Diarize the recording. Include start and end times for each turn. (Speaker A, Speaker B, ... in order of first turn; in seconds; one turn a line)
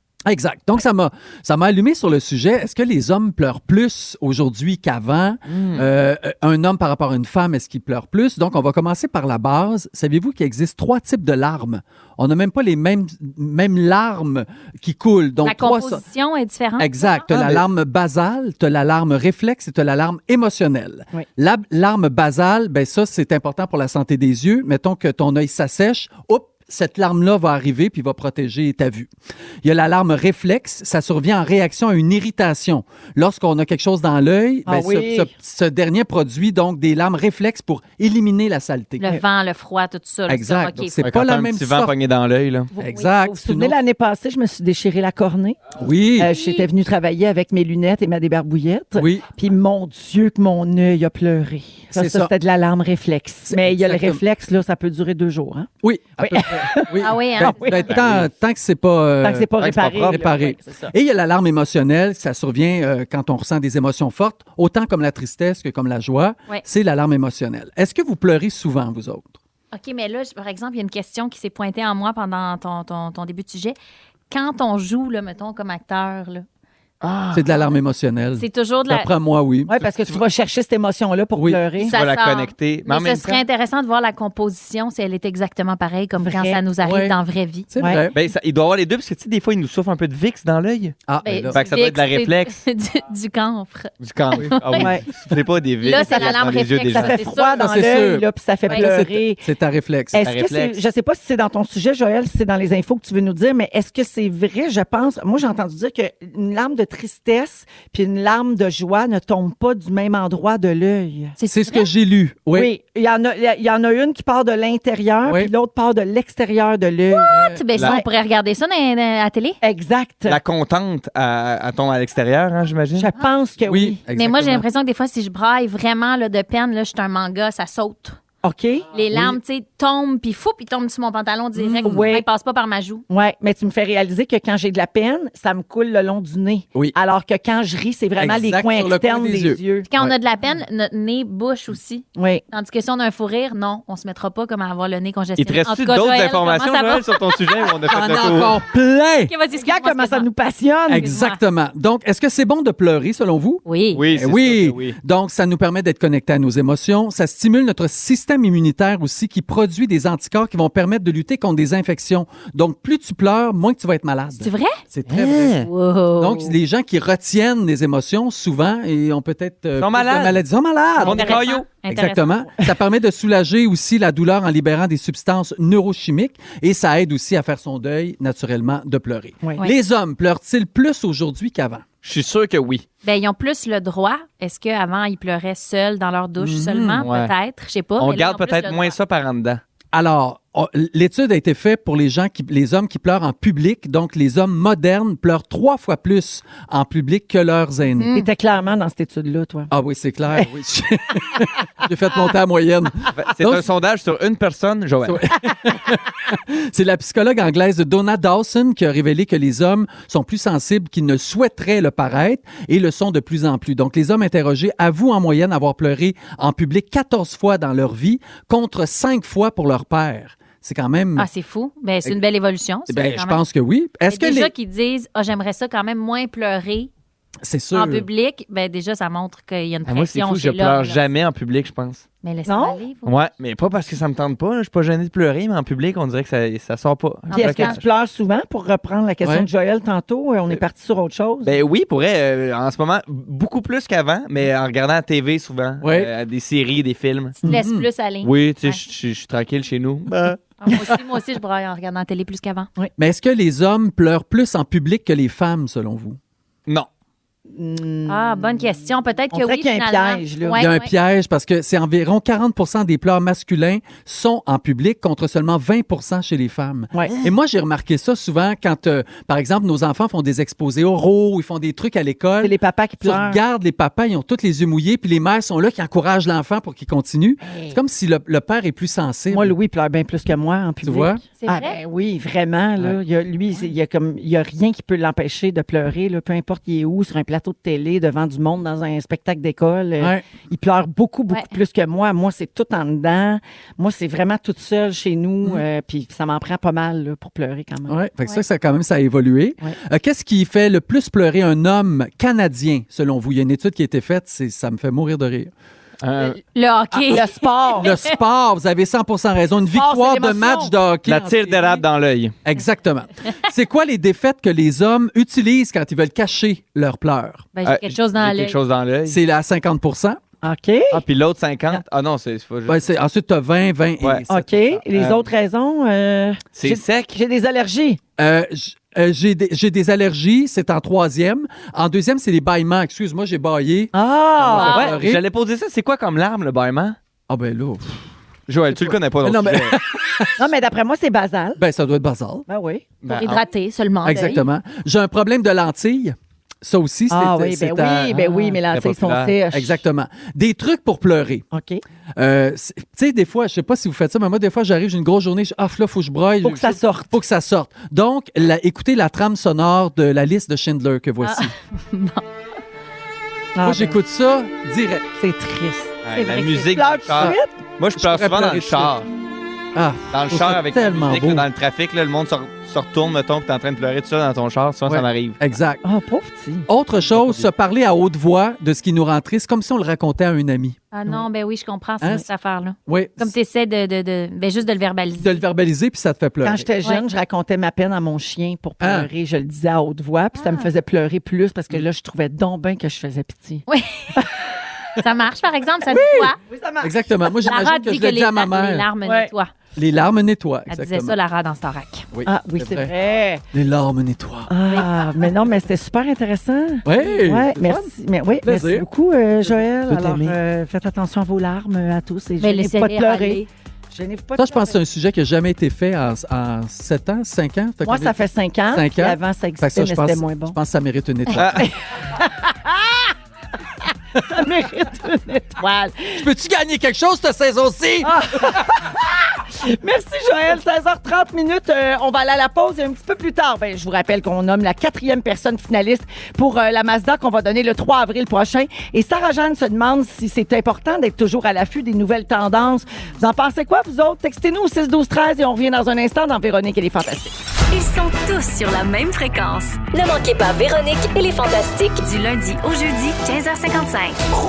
Speaker A: 0.2-16.0
Speaker B: 5.5-5.8
Speaker C: 15.4-17.3
Speaker A: 16.8-29.1
Speaker B: 17.3-17.6
Speaker A: 29.6-39.0
Speaker D: 34.6-35.3
Speaker C: 39.0-41.0
Speaker A: 40.3-41.9
Speaker B: 41.0-42.7
Speaker A: 42.8-43.8
Speaker C: 42.8-43.0
Speaker D: 42.9-45.6
Speaker A: 45.8-46.3
Speaker D: 46.2-55.7
Speaker C: 46.3-46.7
Speaker A: 49.0-49.2
Speaker A: 51.9-52.3
Speaker A: 53.5-54.2
Speaker A: 55.8-69.4
Speaker D: 56.2-57.9
Speaker C: 57.0-57.9
Speaker B: 57.9-58.3
Speaker D: 59.2-60.9
Speaker B: 59.6-60.2
Speaker C: 69.7-73.8
Speaker C: 74.3-76.4
Speaker B: 77.0-77.5
Speaker A: 77.3-79.8
Speaker C: 78.4-79.1
Speaker D: 79.7-81.9
Speaker A: 81.3-81.6
Speaker C: 81.8-87.7
Speaker B: 81.9-83.3
Speaker D: 86.2-86.6
Speaker A: 86.8-87.2
Speaker A: 87.7-88.1
Speaker B: 88.1-91.0
Speaker A: 91.1-91.6
Speaker C: 91.2-94.9
Speaker B: 91.5-92.5
Speaker B: 94.0-97.1
Speaker D: 94.8-95.0
Speaker C: 95.8-97.8
Speaker D: 95.9-99.4
Speaker A: 97.5-100.2
Speaker D: 100.1-111.3
Speaker B: 100.2-100.8
Speaker C: 111.4-111.9
Speaker A: 111.5-112.7
Speaker D: 112.5-118.0
Speaker A: 115.2-115.5
Speaker A: 117.3-117.6
Speaker C: 117.3-119.6
Speaker D: 119.6-120.4
Speaker B: 120.2-123.1
Speaker D: 123.0-124.0
Speaker A: 123.7-124.6
Speaker C: 124.1-128.2
Speaker D: 128.4-128.9
Speaker C: 128.9-133.0
Speaker A: 129.1-129.4
Speaker A: 131.6-132.0
Speaker D: 131.8-132.2
Speaker D: 133.1-139.9
Speaker A: 138.2-140.1
Speaker C: 139.9-147.7
Speaker D: 142.2-142.4
Speaker B: 145.4-148.6
Speaker A: 147.8-149.3
Speaker C: 149.3-150.3
Speaker D: 149.6-151.1
Speaker A: 150.9-181.8
Speaker C: 151.0-151.4
Speaker C: 153.7-154.0
Speaker B: 153.9-154.9
Speaker C: 164.4-164.8
Speaker B: 165.1-165.7
Speaker C: 165.6-166.5
Speaker B: 169.8-170.4
Speaker B: 171.0-171.7
Speaker C: 171.0-172.3
Speaker B: 182.0-182.8
Speaker C: 183.0-188.9
Speaker A: 186.4-187.1
Speaker B: 187.0-187.3
Speaker B: 188.0-189.6
Speaker A: 189.9-198.1
Speaker C: 198.0-198.3
Speaker D: 198.1-199.7
Speaker A: 199.7-203.7
Speaker B: 203.2-205.2
Speaker A: 205.0-221.3
Speaker C: 221.2-223.4
Speaker A: 222.9-224.5
Speaker C: 224.1-226.9
Speaker A: 227.4-228.1
Speaker C: 227.7-231.0
Speaker B: 229.9-232.0
Speaker C: 232.2-233.1
Speaker D: 232.4-232.8
Speaker B: 233.0-237.8
Speaker C: 237.3-237.8
Speaker D: 237.3-241.5
Speaker B: 241.4-247.4
Speaker A: 245.8-246.1
Speaker C: 247.4-248.8
Speaker A: 247.5-247.9
Speaker B: 248.2-250.4
Speaker C: 250.6-252.7
Speaker A: 253.0-256.2
Speaker D: 257.5-258.6
Speaker C: 258.1-260.9
Speaker D: 259.3-260.6
Speaker A: 260.6-279.5
Speaker D: 272.4-273.4
Speaker D: 277.4-277.8
Speaker D: 279.3-297.9
Speaker A: 280.8-281.2
Speaker C: 281.4-281.8
Speaker A: 290.0-290.2
Speaker A: 297.9-305.5
Speaker B: 306.0-306.4
Speaker C: 306.3-308.1
Speaker D: 306.9-307.9
Speaker A: 307.8-311.8
Speaker D: 309.7-310.7
Speaker B: 311.1-312.4
Speaker A: 312.4-317.5
Speaker C: 317.5-318.6
Speaker B: 317.6-319.2
Speaker A: 319.1-320.2
Speaker D: 320.4-321.0
Speaker B: 320.9-322.8
Speaker A: 322.6-324.8
Speaker D: 324.3-328.0
Speaker B: 324.9-325.2
Speaker B: 326.6-327.2
Speaker A: 328.2-335.2
Speaker D: 333.9-334.9
Speaker B: 334.5-336.9
Speaker C: 334.6-334.9
Speaker A: 337.3-338.0
Speaker B: 338.5-339.8
Speaker A: 338.7-340.4
Speaker D: 340.4-341.6
Speaker A: 341.6-342.4
Speaker D: 342.5-342.8
Speaker B: 343.0-343.4
Speaker C: 343.1-344.4
Speaker A: 344.0-348.4
Speaker D: 347.1-349.8
Speaker B: 348.7-349.3
Speaker A: 349.5-351.4
Speaker D: 351.5-351.8
Speaker A: 352.2-361.5
Speaker D: 356.4-357.1
Speaker C: 361.2-362.2
Speaker D: 363.6-364.0
Speaker A: 363.6-365.1
Speaker D: 365.2-366.0
Speaker B: 366.0-369.1
Speaker C: 366.1-366.8
Speaker D: 366.7-367.6
Speaker A: 367.9-369.0
Speaker A: 369.7-371.4
Speaker B: 370.1-375.4
Speaker A: 374.9-375.8
Speaker D: 375.8-376.7
Speaker A: 376.7-380.8
Speaker B: 377.1-377.5
Speaker C: 380.9-385.4
Speaker A: 382.0-382.3
Speaker A: 382.9-383.3
Speaker A: 385.2-386.7
Speaker D: 386.4-393.6
Speaker A: 388.8-389.1
Speaker C: 390.4-390.7
Speaker C: 393.7-394.3
Speaker C: 395.0-396.4
Speaker A: 395.9-398.9
Speaker D: 396.5-396.9
Speaker C: 397.4-399.5
Speaker D: 399.0-399.3
Speaker A: 399.8-401.1
Speaker C: 400.7-402.1
Speaker A: 402.1-402.9
Speaker D: 402.2-403.4
Speaker A: 403.5-404.5
Speaker D: 404.5-414.8
Speaker A: 406.8-408.9
Speaker A: 409.9-410.3
Speaker C: 412.4-413.5
Speaker A: 414.4-418.2
Speaker D: 417.8-420.6
Speaker A: 418.7-421.6
Speaker B: 421.3-421.6
Speaker D: 421.6-423.1
Speaker D: 424.1-426.2
Speaker A: 426.1-428.8
Speaker D: 428.0-447.3
Speaker E: 447.7-454.2